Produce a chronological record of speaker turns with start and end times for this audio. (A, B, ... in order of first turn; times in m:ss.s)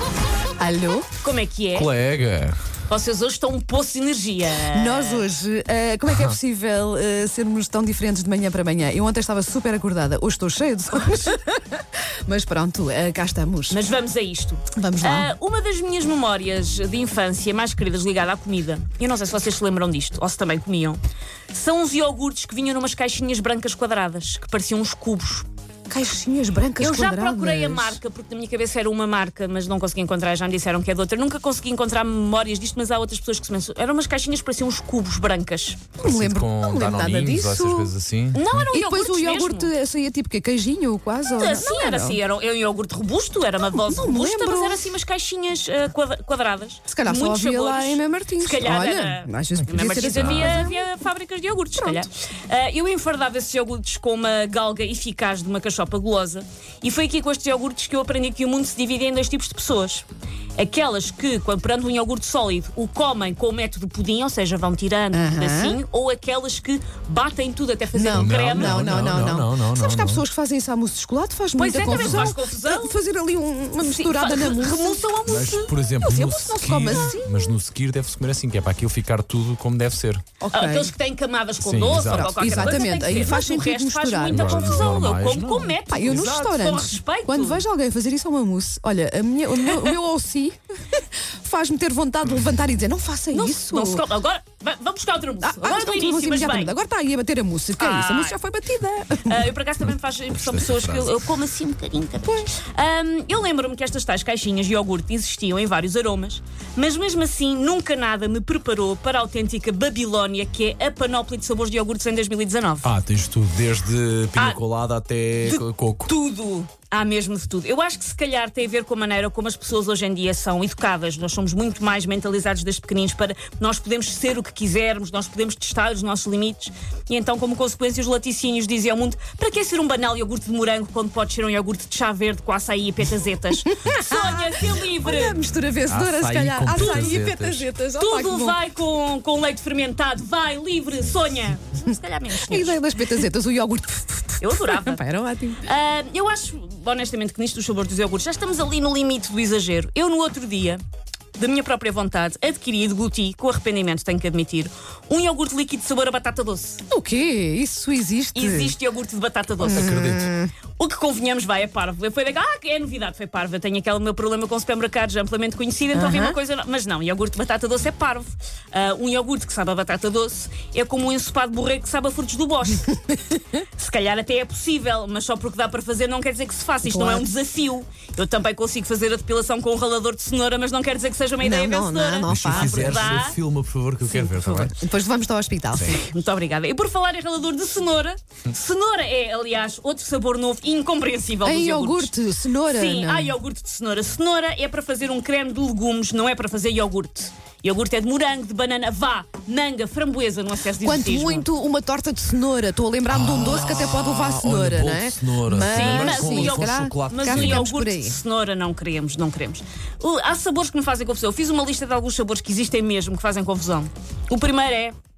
0:00.6-0:01.1 A
0:01.2-0:01.9 B
0:01.8-0:02.6 C
0:02.9-0:05.2 B
0:04.7-0:13.8 A
0:06.1-0:06.4 C
0:13.7-0:21.0 B
0:14.8-0:15.3 A
0:21.5-0:25.5 B
0:25.9-0:28.0 A
0:26.8-0:35.8 B
0:36.0-0:38.0 A
0:36.0-0:38.7 C
0:38.3-0:39.7 B
0:38.7-0:42.2 A
0:41.3-1:00.0 B
0:43.7-0:44.9 A
0:46.9-0:50.9 A
0:49.6-0:50.6 C
0:51.8-0:52.1 A
1:00.6-1:09.0 B
1:05.1-1:05.8 A
1:07.9-1:15.1 A
1:08.1-1:10.2 C
1:11.6-1:12.9 B
1:11.9-1:12.2 C
1:13.8-1:15.7 B
1:15.3-1:20.2 C
1:16.0-1:17.5 A
1:16.7-1:17.2 B
1:20.4-1:20.9 A
1:20.5-1:27.6 B
1:21.6-1:23.3 C
1:22.0-1:24.9 A
1:24.3-1:25.8 C
1:25.9-1:34.0 A
1:29.6-1:29.9 B
1:33.3-1:36.7 B
1:35.4-1:39.5 A
1:37.8-1:38.4 B
1:39.2-1:52.9 B
1:40.3-1:41.2 C
1:52.8-1:56.1 C
1:55.4-2:15.4 B
2:13.6-2:18.6 A
2:15.7-2:17.7 C
2:16.8-2:17.2 B
2:18.0-2:22.8 B
2:22.5-2:25.7 A
2:24.4-2:25.0 B
2:25.6-2:30.8 B
2:31.4-2:36.8 B
2:36.9-2:38.8 A
2:38.3-2:40.0 B
2:39.6-2:40.5 A
2:39.7-2:40.3 C
2:40.8-2:53.0 B
2:45.9-2:46.4 A
2:53.8-3:03.4 B
2:56.8-2:57.3 A
3:01.4-3:03.2 A
3:02.3-3:04.8 C
3:04.1-3:06.0 A
3:05.7-3:06.0 C
3:05.8-3:21.5 B
3:11.4-3:13.4 A
3:20.8-3:28.2 A
3:23.1-3:27.7 C
3:25.6-3:35.0 B